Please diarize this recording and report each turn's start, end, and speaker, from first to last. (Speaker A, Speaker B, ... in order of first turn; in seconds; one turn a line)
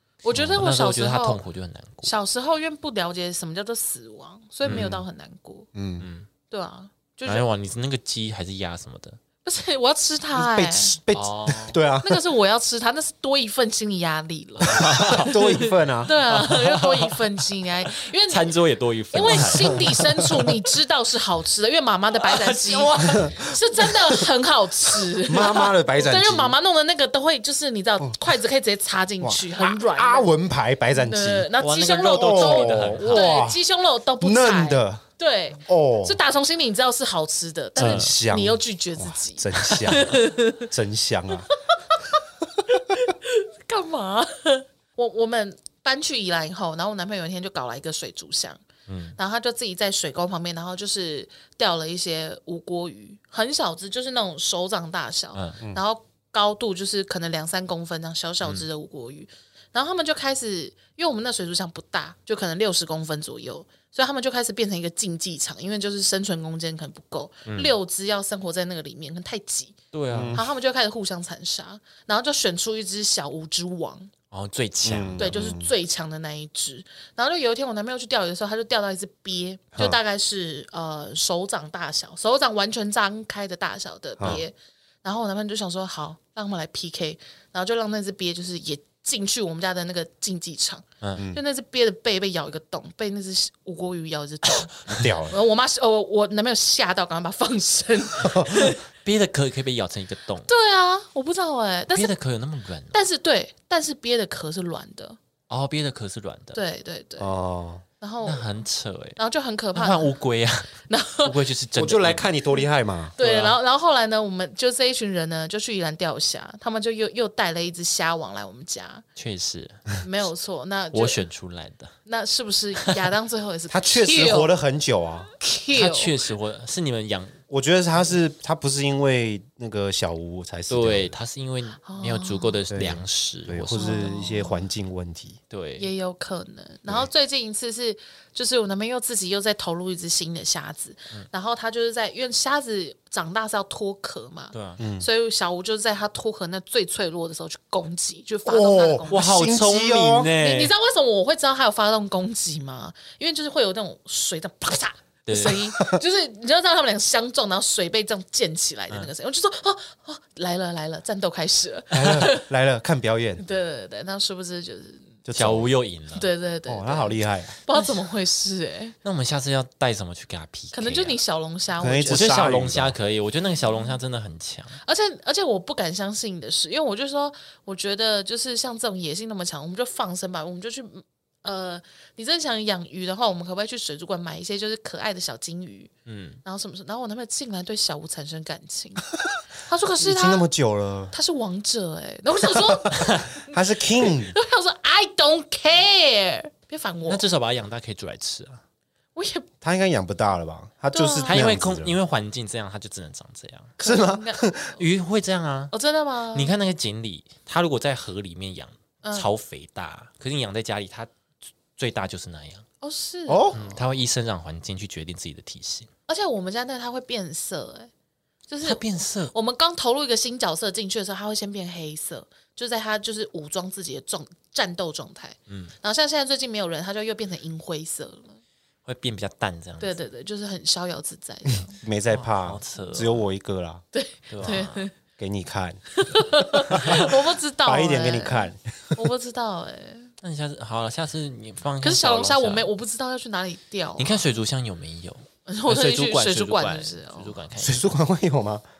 Speaker A: 0.2-1.4
Speaker B: 0.4-2.1
Speaker A: 2.0-5.7
Speaker B: 4.6-5.0
Speaker C: 4.7-5.0
Speaker C: 5.7-6.1
Speaker B: 6.0-6.3
Speaker A: 6.5-7.5
Speaker B: 7.2-9.2
Speaker A: 9.4-10.9
Speaker C: 10.3-12.2
Speaker B: 11.1-11.8
Speaker A: 12.0-18.5
Speaker C: 14.7-16.1
Speaker B: 14.7-17.2
Speaker B: 18.0-20.0
Speaker A: 19.1-30.3
Speaker C: 19.3-19.8
Speaker B: 22.1-24.2
Speaker C: 25.3-26.6
Speaker C: 29.2-31.5
Speaker A: 30.9-40.7
Speaker B: 31.6-33.3
Speaker C: 32.1-33.6
Speaker C: 34.2-35.0
Speaker C: 35.6-36.2
Speaker C: 37.8-41.5
Speaker B: 37.8-38.1
Speaker A: 41.5-42.0
Speaker A: 42.7-48.6
Speaker B: 48.9-49.2
Speaker A: 49.1-69.8
Speaker B: 55.3-55.6
Speaker B: 67.5-67.8
Speaker B: 69.9-70.4
Speaker C: 70.1-70.4
Speaker A: 70.3-74.1
Speaker B: 74.3-75.3
Speaker C: 74.8-75.7
Speaker A: 75.2-98.8
Speaker B: 91.0-91.2
Speaker C: 91.2-91.4
Speaker C: 94.9-95.4
Speaker C: 98.2-98.5
Speaker B: 98.5-100.5
Speaker A: 100.5-102.1
Speaker B: 101.9-103.0
Speaker A: 102.9-105.2
Speaker B: 105.5-106.6
Speaker A: 106.5-107.3
Speaker C: 107.2-107.8
Speaker A: 108.0-108.5
Speaker B: 108.2-109.2
Speaker A: 109.2-110.1
Speaker B: 109.7-112.3
Speaker A: 110.9-111.3
Speaker C: 111.7-113.2
Speaker A: 113.2-119.0
Speaker B: 113.2-113.5
Speaker B: 119.2-120.0
Speaker A: 120.0-121.2
Speaker B: 120.9-121.9
Speaker A: 122.0-124.5
Speaker C: 123.7-125.3
Speaker A: 125.4-126.2
Speaker B: 125.7-127.3
Speaker C: 127.5-131.1
Speaker B: 130.7-134.1
Speaker A: 131.8-132.6
Speaker C: 132.7-135.4
Speaker A: 133.7-134.6
Speaker B: 135.5-135.9
Speaker A: 135.8-149.3
Speaker B: 144.5-144.8
Speaker C: 144.8-145.1
Speaker C: 148.4-150.3
Speaker B: 149.1-150.7
Speaker A: 150.4-162.5
Speaker B: 155.3-155.7
Speaker C: 161.9-163.4
Speaker A: 163.4-165.1
Speaker C: 165.2-165.7
Speaker B: 165.3-166.3
Speaker A: 166.1-168.9
Speaker C: 166.7-167.6
Speaker B: 169.0-171.2
Speaker A: 170.7-172.4
Speaker C: 171.8-173.0
Speaker B: 172.1-174.8
Speaker A: 173.6-174.0
Speaker A: 174.8-185.9
Speaker B: 186.1-186.4
Speaker A: 186.4-189.1
Speaker A: 189.6-190.4
Speaker C: 190.0-191.1
Speaker A: 191.1-197.2
Speaker C: 192.5-194.3
Speaker B: 197.1-198.6
Speaker A: 199.2-199.5
Speaker C: 199.6-202.0
Speaker A: 200.9-201.5
Speaker B: 201.3-203.7
Speaker A: 203.8-204.8
Speaker C: 203.8-204.8
Speaker B: 204.8-205.7
Speaker A: 205.7-206.5
Speaker B: 206.3-211.1
Speaker A: 209.0-209.3
Speaker B: 211.8-212.6
Speaker A: 212.8-213.6
Speaker C: 213.3-213.8
Speaker B: 213.5-215.9
Speaker A: 216.1-217.9
Speaker A: 218.5-228.4
Speaker B: 218.6-219.3
Speaker B: 225.5-225.7
Speaker B: 228.8-229.9
Speaker A: 229.8-231.8
Speaker C: 231.7-233.8
Speaker B: 232.1-233.2
Speaker A: 233.9-234.9
Speaker B: 234.3-234.8
Speaker C: 235.2-235.8
Speaker A: 235.9-240.1
Speaker B: 236.7-237.0
Speaker C: 236.7-237.1
Speaker C: 237.6-239.0
Speaker B: 240.2-242.7
Speaker A: 241.8-244.3
Speaker B: 244.0-247.9
Speaker A: 245.4-247.4
Speaker C: 247.6-248.6